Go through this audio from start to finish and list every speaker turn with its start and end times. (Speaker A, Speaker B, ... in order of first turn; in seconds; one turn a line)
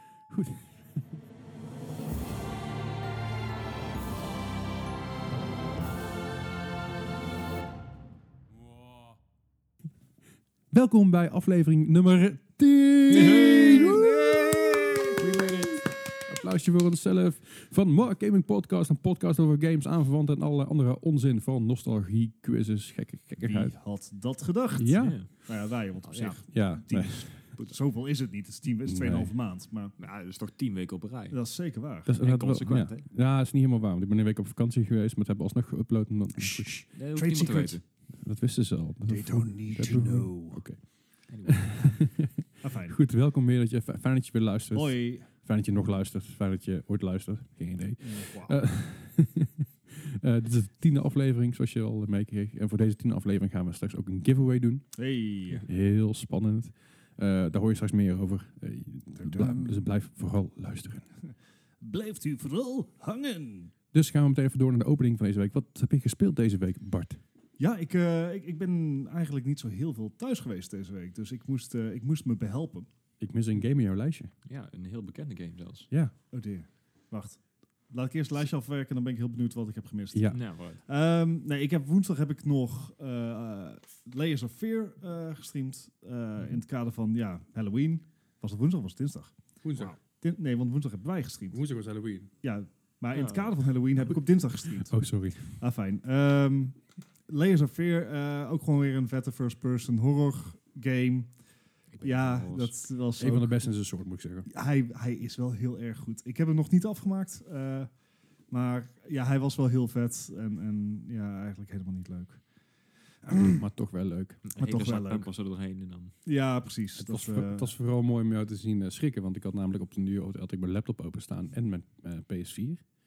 Speaker A: 0.3-1.0
Speaker A: 10.7-14.2
Speaker B: 13.1-14.0
Speaker C: 13.2-15.1
Speaker B: 15.2-15.8
Speaker A: 15.2-15.6
Speaker A: 16.2-23.8
Speaker C: 23.4-29.9
Speaker A: 24.8-25.2
Speaker B: 24.9-25.5
Speaker B: 26.0-26.4
Speaker A: 26.5-27.5
Speaker B: 27.5-27.8
Speaker A: 28.9-29.3
Speaker B: 30.0-31.4
Speaker C: 31.3-32.1
Speaker A: 32.0-36.9
Speaker B: 32.1-33.0
Speaker C: 36.4-37.8
Speaker B: 36.9-37.8
Speaker A: 38.2-55.1
Speaker C: 39.0-40.6
Speaker B: 41.3-41.9
Speaker C: 42.6-43.0
Speaker C: 44.7-45.3
Speaker C: 48.0-48.6
Speaker C: 54.9-55.6
Speaker A: 55.6-61.0
Speaker C: 59.2-59.8
Speaker C: 61.8-63.7
Speaker A: 63.9-67.2
Speaker C: 67.6-72.9
Speaker A: 73.2-74.3
Speaker B: 74.4-75.9
Speaker C: 76.3-89.4
Speaker A: 80.1-80.4
Speaker B: 80.3-80.8
Speaker A: 89.6-90.0
Speaker C: 90.0-91.6
Speaker A: 91.5-92.3
Speaker C: 92.4-101.3
Speaker B: 93.1-93.5
Speaker A: 94.7-95.6
Speaker B: 101.9-102.8
Speaker C: 102.0-103.6
Speaker A: 103.2-104.5
Speaker C: 104.5-107.9
Speaker C: 108.5-112.4
Speaker C: 113.2-113.6
Speaker A: 113.4-114.4
Speaker B: 114.4-116.1
Speaker C: 114.5-115.3
Speaker C: 116.2-117.7
Speaker A: 117.0-122.8